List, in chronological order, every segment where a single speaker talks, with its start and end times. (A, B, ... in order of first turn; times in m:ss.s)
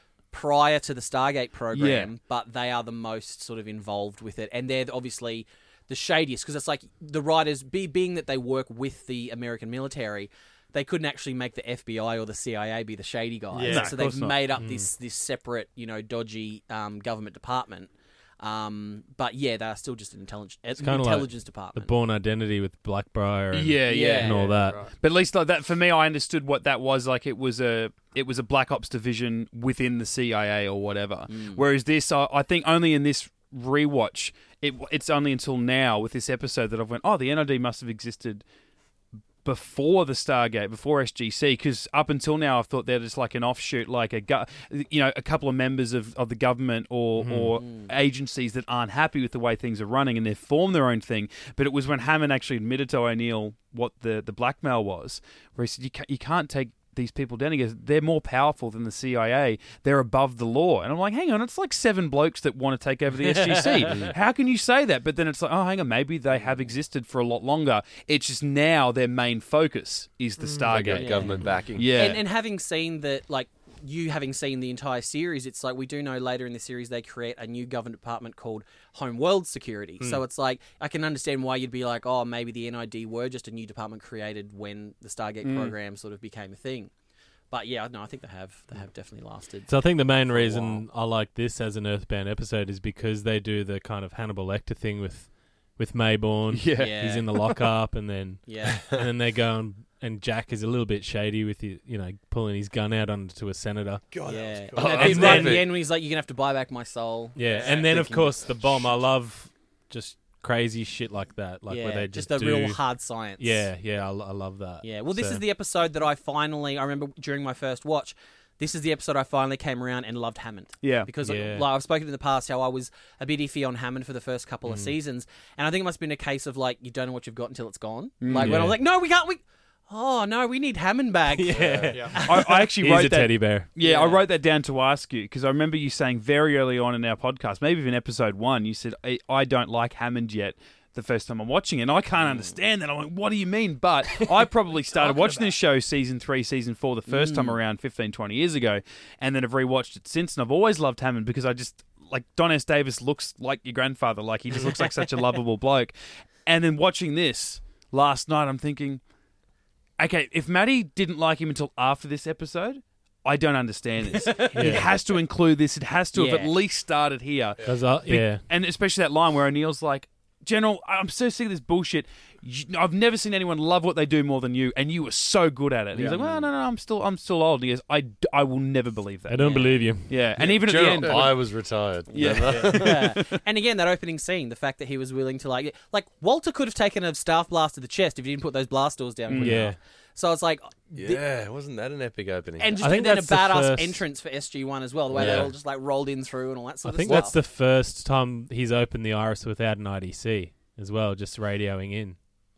0:00.3-0:21.9 A
0:01.7-0:02.1 B
0:13.5-0:13.9 C
0:13.7-0:14.9 D
0:20.8-0:24.9 D
0:23.5-0:38.4 B
0:23.9-0:24.4 A
0:24.3-0:24.9 C
0:31.3-0:31.6 A
0:39.4-1:12.2 B
0:47.2-0:47.6 D
0:47.6-0:47.9 A
1:03.9-1:04.1 E
1:10.6-1:11.9 E
1:10.9-1:26.9 A
1:25.4-1:25.7 B
1:27.5-1:30.8 A
1:29.7-1:44.0 D
1:36.5-1:37.5 B
1:36.8-1:37.2 A
1:38.4-1:38.8 A
1:44.1-1:45.6 C
1:44.2-1:48.7 A
1:44.7-1:45.6 E
1:44.9-1:45.6 D
1:47.4-1:52.8 D
1:47.4-1:48.1 C
1:51.7-1:53.7 A
1:53.4-1:55.4 D
1:54.8-2:12.6 A
2:00.8-2:01.1 B
2:01.2-2:01.7 D
2:04.6-2:04.9 D
2:08.2-2:08.7 B
2:08.4-2:08.8 D
2:11.3-2:13.7 D
2:11.5-2:12.0 E
2:12.2-2:39.0 B
2:13.8-2:14.2 A
2:22.2-2:22.5 A
2:25.1-2:25.4 A
2:27.1-2:27.6 A
2:40.0-3:01.4 B
2:44.1-2:44.8 A
2:44.5-2:44.9 D
2:46.1-2:46.5 A
2:47.6-2:48.4 D
2:56.0-2:56.5 A
2:59.3-3:00.2 D
2:59.4-2:59.9 A
3:00.4-3:03.1 E
3:02.1-3:03.4 B
3:02.2-3:11.2 A
3:09.3-3:09.6 B
3:09.4-3:09.8 D
3:10.9-3:12.7 E
3:12.6-3:17.4 A
3:12.8-3:14.0 D
3:15.1-3:15.5 E
3:15.2-3:15.5 D
3:16.8-3:22.2 D